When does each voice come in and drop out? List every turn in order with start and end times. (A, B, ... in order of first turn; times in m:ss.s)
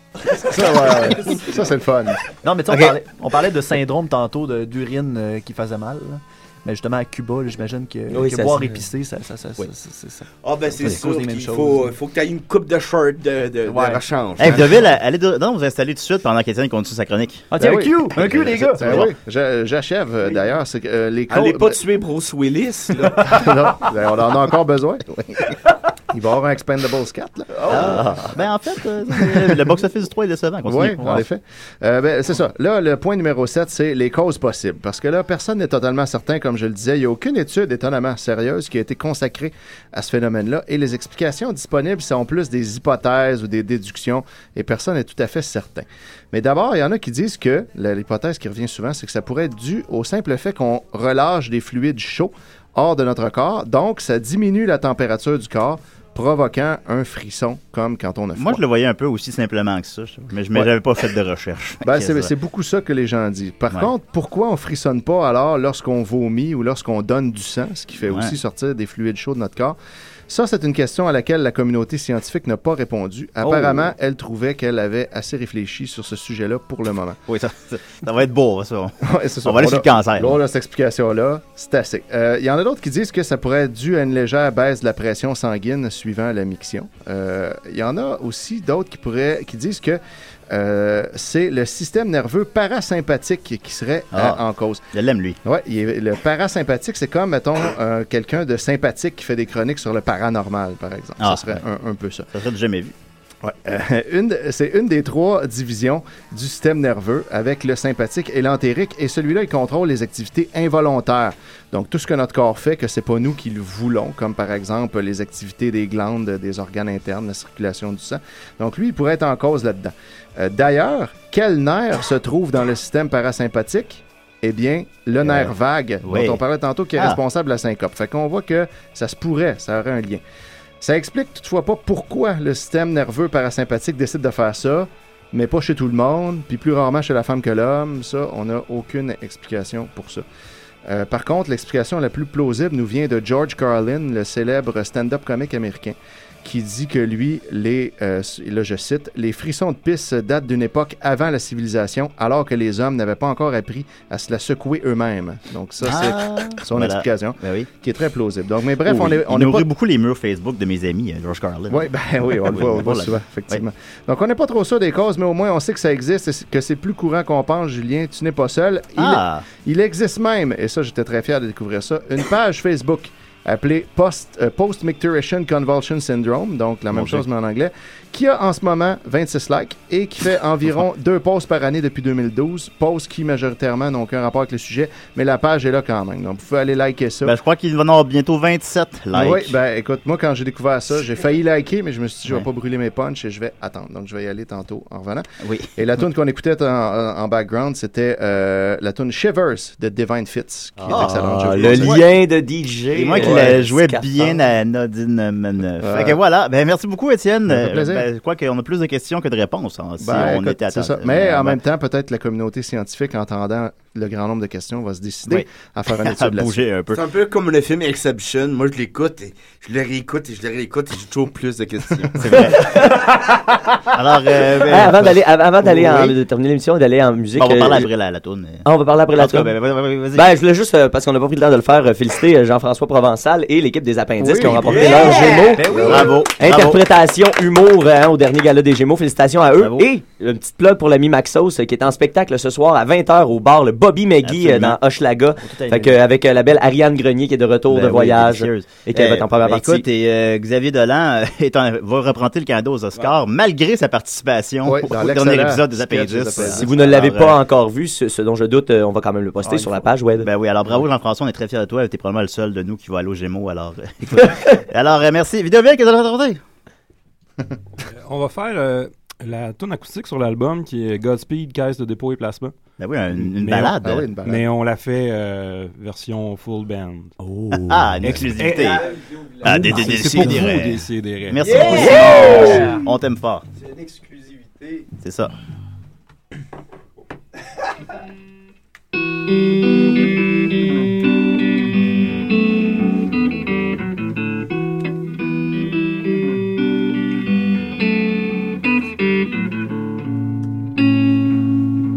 0:00.4-0:02.2 A
0:02.4-0:10.3 B
0:02.7-0:03.0 C
0:08.1-0:08.7 D
0:10.4-0:14.8 E
0:10.8-0:11.9 B
0:13.7-0:14.0 B
0:14.4-0:17.5 C
0:17.5-0:19.1 B
0:17.6-0:21.8 A
0:18.2-0:19.1 C
0:21.3-0:23.4 E
0:23.2-0:25.1 A
0:26.1-0:28.1 A
0:27.7-0:31.3 C
0:27.9-0:28.3 D
0:30.6-0:58.6 A
0:58.4-1:02.3 C
1:01.8-1:09.8 A
1:08.1-1:08.3 C
1:10.3-1:17.2 A
1:17.3-1:20.4 C
1:19.0-1:34.8 A
1:34.1-1:34.4 C
1:34.9-1:35.4 C
1:35.4-1:42.3 A
1:41.2-1:41.6 C
1:42.3-1:43.0 C
1:43.4-2:10.2 A
2:05.2-2:05.5 C
2:06.0-2:06.4 C
2:10.8-2:20.2 A
2:20.9-2:39.7 A
2:35.8-2:37.7 C
2:38.8-2:41.9 C
2:41.7-3:07.4 A
2:42.4-2:43.6 C
2:49.0-2:49.4 C
2:56.9-2:57.2 C
3:07.2-3:09.6 C
3:09.1-3:22.1 A
3:15.4-3:15.7 C
3:20.9-3:22.0 C
3:20.9-3:24.4 D
3:22.9-3:31.6 C
3:23.2-3:23.6 A
3:25.8-3:26.2 A
3:27.5-3:28.1 A
3:30.0-3:36.6 A
3:35.3-3:37.0 C
3:36.9-3:42.2 E
3:42.2-3:42.8 C
3:42.4-3:43.8 D
3:43.9-3:45.2 C
3:44.5-3:47.9 D
3:45.7-3:46.1 A
3:47.4-3:50.3 C
3:48.6-3:49.5 D
3:50.2-4:09.8 D
3:54.2-3:55.0 A
3:54.7-3:55.6 E
3:54.8-3:56.2 B
3:55.7-3:56.0 A
3:55.8-3:56.8 C
3:59.6-3:59.9 C
4:04.2-4:04.8 C
4:05.4-4:06.0 B
4:07.7-4:17.4 C
4:14.6-4:16.8 A
4:16.6-4:20.3 D
4:19.4-4:19.9 B
4:20.2-4:26.4 C
4:27.9-4:32.5 F
4:32.8-4:34.1 C
4:33.2-4:38.8 F
4:33.8-4:34.5 A
4:37.5-4:43.4 C
4:39.0-4:40.2 B
4:39.4-4:41.7 F
4:41.4-4:42.8 B
4:41.6-4:42.7 E
4:43.6-4:44.8 B
4:45.0-4:45.3 C